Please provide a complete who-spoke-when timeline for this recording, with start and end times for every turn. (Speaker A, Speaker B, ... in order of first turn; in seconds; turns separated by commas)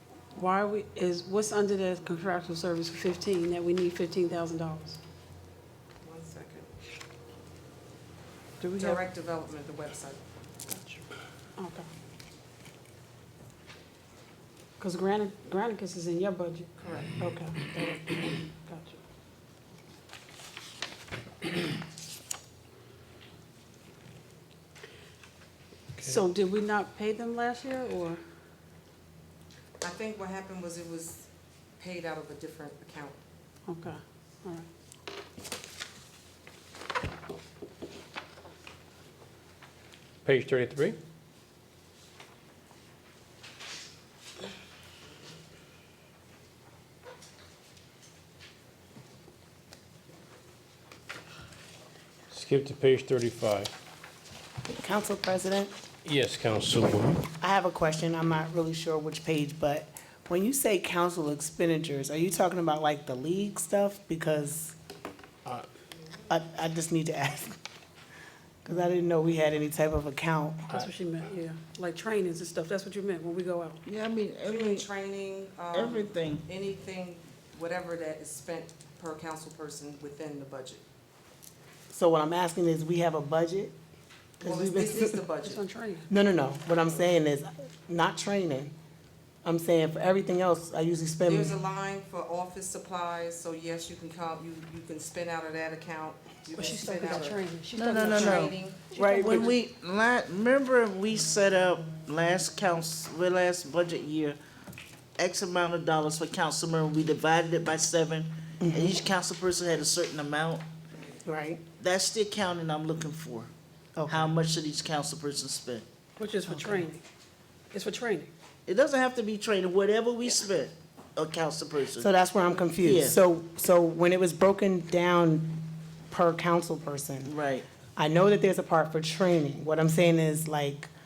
Speaker A: 0.3-5.0, Speaker B: 6.0-6.7, Speaker A: 8.6-9.0, Speaker B: 8.8-10.2, Speaker A: 10.7-11.0, Speaker A: 11.6-11.9, Speaker A: 14.8-19.0, Speaker B: 16.8-17.1, Speaker A: 26.0-28.2, Speaker B: 29.8-33.2, Speaker A: 33.7-34.7, Speaker C: 40.2-41.0, Speaker C: 52.3-53.7, Speaker D: 54.7-55.7, Speaker C: 56.0-57.2, Speaker D: 57.4-64.8, Speaker D: 66.3-67.6, Speaker D: 68.6-70.7, Speaker A: 70.7-73.8, Speaker E: 73.8-74.8, Speaker B: 74.4-80.8, Speaker E: 75.7-76.4, Speaker D: 81.9-83.7, Speaker E: 84.4-85.0, Speaker B: 84.4-85.6, Speaker A: 85.4-86.1, Speaker D: 86.1-88.7, Speaker D: 89.4-91.6, Speaker B: 91.2-98.9, Speaker A: 96.5-99.5, Speaker E: 97.7-104.4, Speaker E: 105.2-110.7, Speaker D: 108.6-109.0, Speaker D: 111.2-111.6, Speaker E: 111.8-113.5, Speaker D: 114.0-114.3, Speaker E: 114.1-115.9, Speaker A: 116.2-117.0, Speaker D: 116.5-116.9, Speaker A: 117.7-118.3, Speaker E: 118.7-122.1, Speaker D: 122.0-127.3, Speaker E: 122.8-123.2, Speaker E: 127.2-127.7, Speaker D: 128.0-130.9